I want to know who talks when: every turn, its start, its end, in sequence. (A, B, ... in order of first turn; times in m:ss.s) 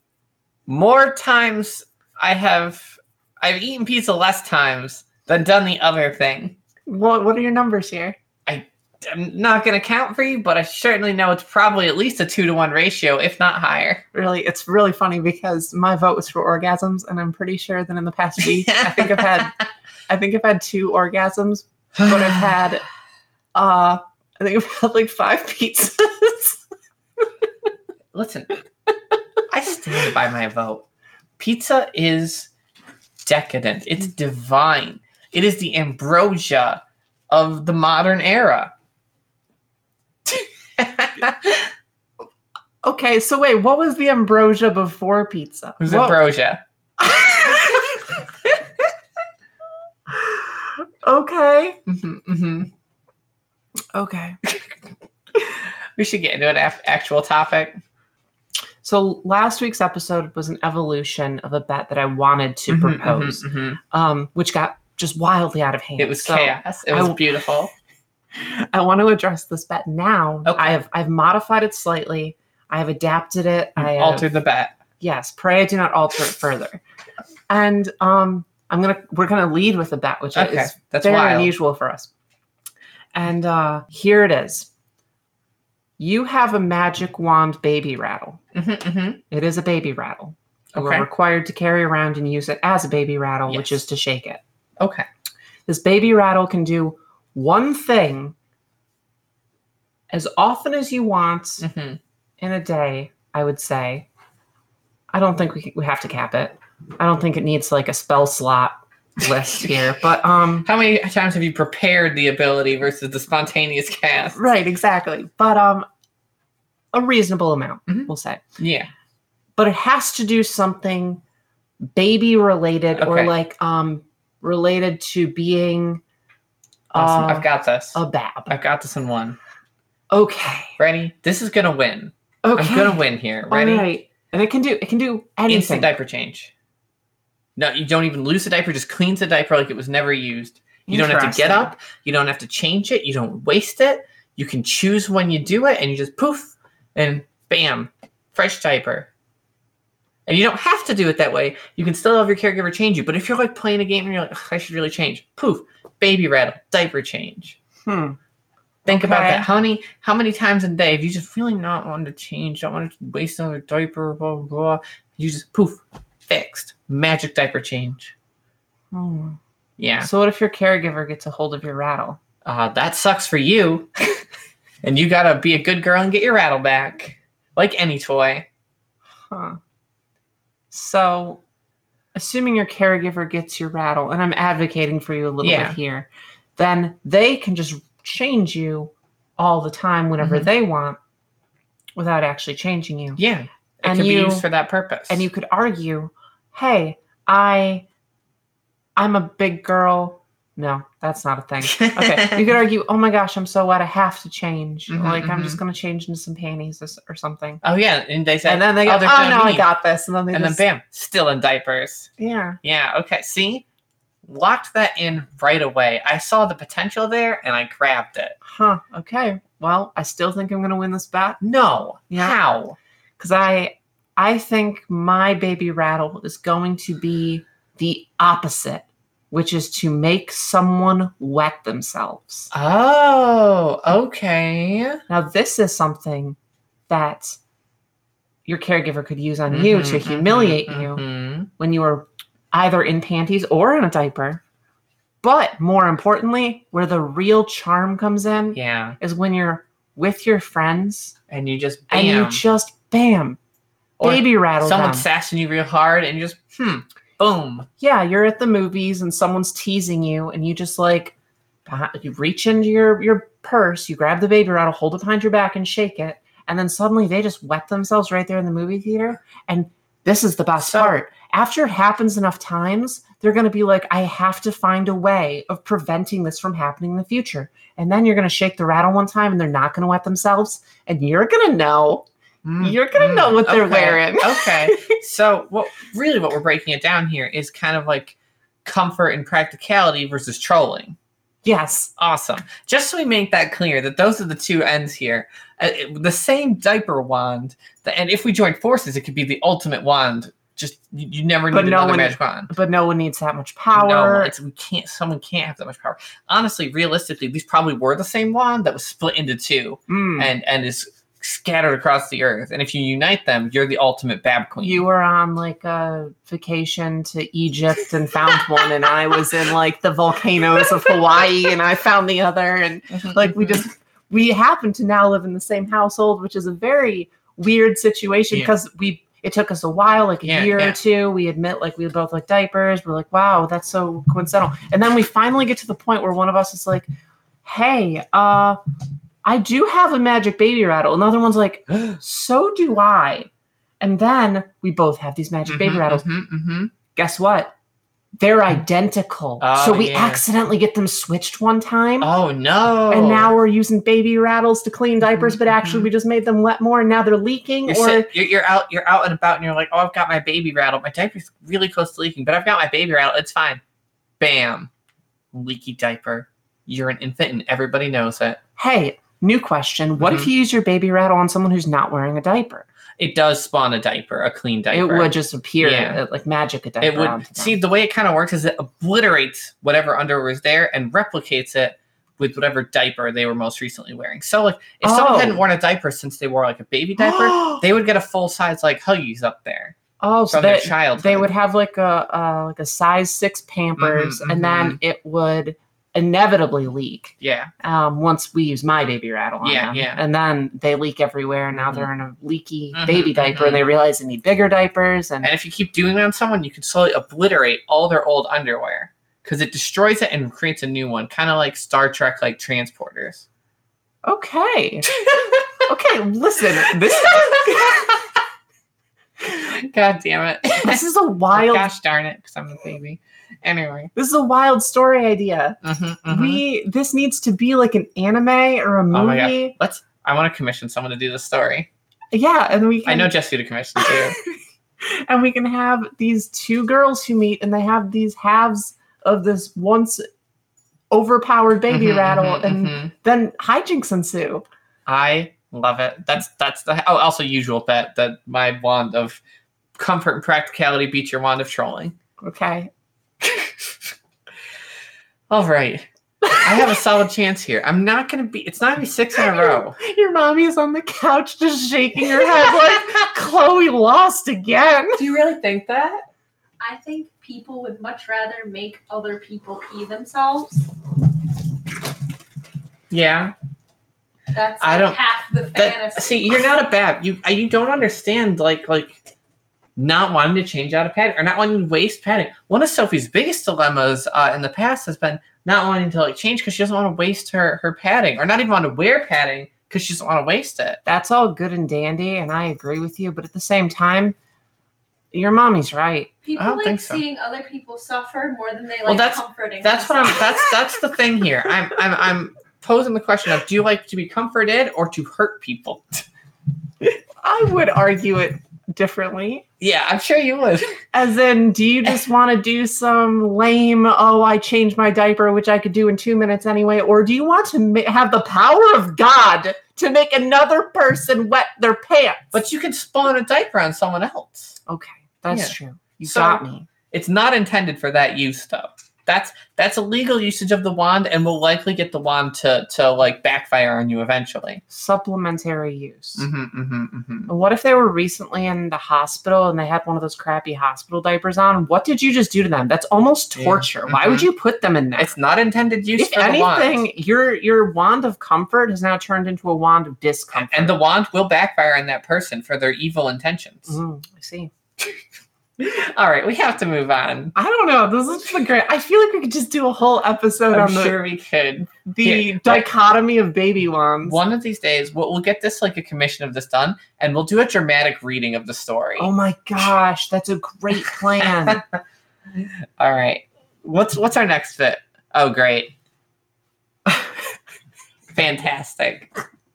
0:00.7-0:06.6 A
0:06.9-0:08.2 B
0:08.5-0:14.0 A
0:14.1-0:19.6 B
0:18.4-0:19.5 A
0:20.1-0:22.8 B
0:22.0-0:22.5 A
0:23.6-0:26.6 B
0:28.1-0:28.6 A
0:29.5-0:30.8 A
0:31.4-0:32.5 A
0:33.2-0:38.7 A
0:40.3-0:41.6 A
0:42.8-0:46.2 B
0:45.8-0:46.6 A
0:47.0-0:48.6 B
0:50.1-0:51.8 B
0:51.9-0:52.7 A
0:53.9-0:54.4 B
0:55.3-0:57.8 A
0:58.8-1:07.2 B
1:02.7-1:03.8 A
1:06.0-1:07.7 A
1:08.4-1:14.3 B
1:10.4-1:10.7 A
1:13.8-1:14.8 A
1:15.0-1:16.8 B
1:17.5-1:22.1 B
1:20.3-1:21.5 A
1:23.1-1:24.7 B
1:26.0-1:28.4 B
1:28.5-1:29.2 A
1:29.3-1:34.4 B
1:30.7-1:31.1 A
1:33.5-1:33.8 A
1:34.8-1:35.1 A
1:35.7-1:38.4 B
1:40.1-1:41.7 B
1:41.6-1:42.0 A
1:42.4-1:44.1 B
1:45.1-1:50.7 B
1:50.6-1:54.4 A
1:54.4-1:55.9 B
1:56.9-1:58.4 B
1:57.9-1:58.9 A
1:59.6-2:01.2 B
2:01.9-2:06.0 B
2:03.0-2:03.3 A
2:06.9-2:08.6 B
2:07.0-2:09.4 A
2:10.1-2:10.8 B
2:10.8-2:13.9 A
2:12.4-2:15.9 B
2:15.5-2:16.5 A
2:17.6-2:29.1 A
2:20.9-2:21.7 B
2:30.3-2:37.6 A
2:37.9-2:38.2 B
2:38.8-2:48.1 A
2:38.9-2:39.5 B
2:48.9-2:49.4 B
2:49.8-2:50.1 A
2:50.0-2:52.2 B
2:52.4-2:53.9 A
2:54.8-2:58.5 A
2:59.3-2:59.6 B
3:00.7-3:01.4 B
3:02.2-3:11.0 B
3:05.4-3:05.8 A
3:10.2-3:10.5 A
3:12.0-3:13.2 B
3:13.2-3:15.3 A
3:13.8-3:14.5 B
3:15.1-3:17.9 B
3:19.0-3:27.6 B
3:21.6-3:22.5 A
3:24.9-3:25.6 A
3:27.6-3:29.7 A
3:28.4-3:30.6 B
3:30.3-3:32.1 A
3:32.2-3:32.6 B
3:32.6-3:33.6 A
3:34.3-3:38.4 A
3:38.4-3:41.4 B
3:41.4-3:42.8 A
3:42.1-3:42.4 B
3:43.2-3:52.5 B
3:52.5-3:55.0 A
3:55.1-3:56.4 B
3:56.9-3:57.4 B
3:58.5-4:01.0 B
3:59.5-4:01.5 A
4:01.5-4:04.4 B
4:05.2-4:11.2 B
4:08.6-4:09.0 A
4:11.3-4:12.4 A
4:11.9-4:13.4 B
4:14.0-4:17.7 A
4:14.0-4:15.0 B
4:17.8-4:21.2 B
4:21.7-4:42.1 B
4:30.6-4:30.9 A
4:42.4-4:51.0 A
4:42.6-4:45.0 B
4:51.4-4:51.9 B
4:52.0-5:02.5 A
5:01.5-5:04.3 B
5:03.7-5:14.8 A
5:09.9-5:10.3 B
5:14.6-5:36.9 B
5:23.0-5:23.6 A
5:30.2-5:30.8 A
5:37.4-5:38.6 B
5:39.2-5:43.3 B
5:43.8-5:46.1 B
5:45.5-5:46.7 A
5:47.0-5:47.5 B
5:48.2-5:52.1 B
5:49.4-5:50.2 A
5:52.0-5:53.3 A
5:52.9-5:58.1 B
5:55.2-5:55.9 A
5:57.7-6:03.6 A
6:04.2-6:04.7 A
6:05.3-6:08.4 A
6:08.6-6:12.7 B
6:10.0-6:10.3 A
6:13.0-6:16.0 A
6:14.7-6:17.6 B
6:16.8-6:29.8 A
6:24.8-6:25.4 B
6:27.0-6:27.6 B
6:30.0-6:45.3 B
6:30.3-6:31.3 A
6:33.8-6:34.8 A
6:37.2-6:37.5 A
6:39.4-6:40.0 A
6:41.6-6:41.9 A
6:42.8-6:43.6 A
6:45.2-6:53.3 A
6:54.0-6:54.9 B
6:55.6-6:58.0 B
6:59.2-7:00.8 A
7:00.6-7:01.7 B
7:01.3-7:03.9 A
7:04.0-7:09.6 B
7:05.6-7:06.4 A
7:08.9-7:11.7 A
7:12.1-7:13.1 B
7:12.9-7:14.2 A
7:13.8-7:14.2 B
7:14.8-7:20.1 B
7:20.9-7:24.4 B
7:21.7-7:22.9 A
7:24.9-7:29.2 A
7:29.8-7:32.0 A
7:32.2-7:32.7 B
7:33.2-7:33.7 A
7:35.3-7:35.9 A
7:36.3-7:36.6 B
7:36.4-7:39.8 A
7:39.2-7:45.0 B
7:45.0-7:46.0 A
7:46.6-7:50.6 C
7:52.9-7:53.3 A
7:54.3-7:56.4 C
7:54.6-7:55.0 A
7:55.6-7:59.0 A
7:59.8-8:10.8 A
8:10.9-8:14.2 B
8:15.1-8:16.1 B
8:16.2-8:20.6 C
8:16.4-8:17.0 A
8:18.9-8:26.0 A
8:27.2-8:29.5 B
8:29.6-8:30.8 A
8:30.9-8:42.3 B
8:42.3-8:44.6 A
8:44.7-8:46.7 B
8:45.3-8:54.6 A
8:54.7-8:56.3 B
8:56.2-8:57.3 A
8:57.3-9:05.1 B
9:03.4-9:04.3 A
9:05.0-9:06.8 A
9:06.0-9:10.8 B
9:10.4-9:13.8 A
9:13.7-9:14.5 B
9:15.6-9:17.3 A
9:17.4-9:21.0 B
9:20.5-9:22.7 A
9:21.9-9:24.2 B
9:24.0-9:29.1 A
9:29.0-9:31.6 B
9:31.2-9:31.6 A
9:32.3-9:35.7 A
9:38.1-9:39.1 A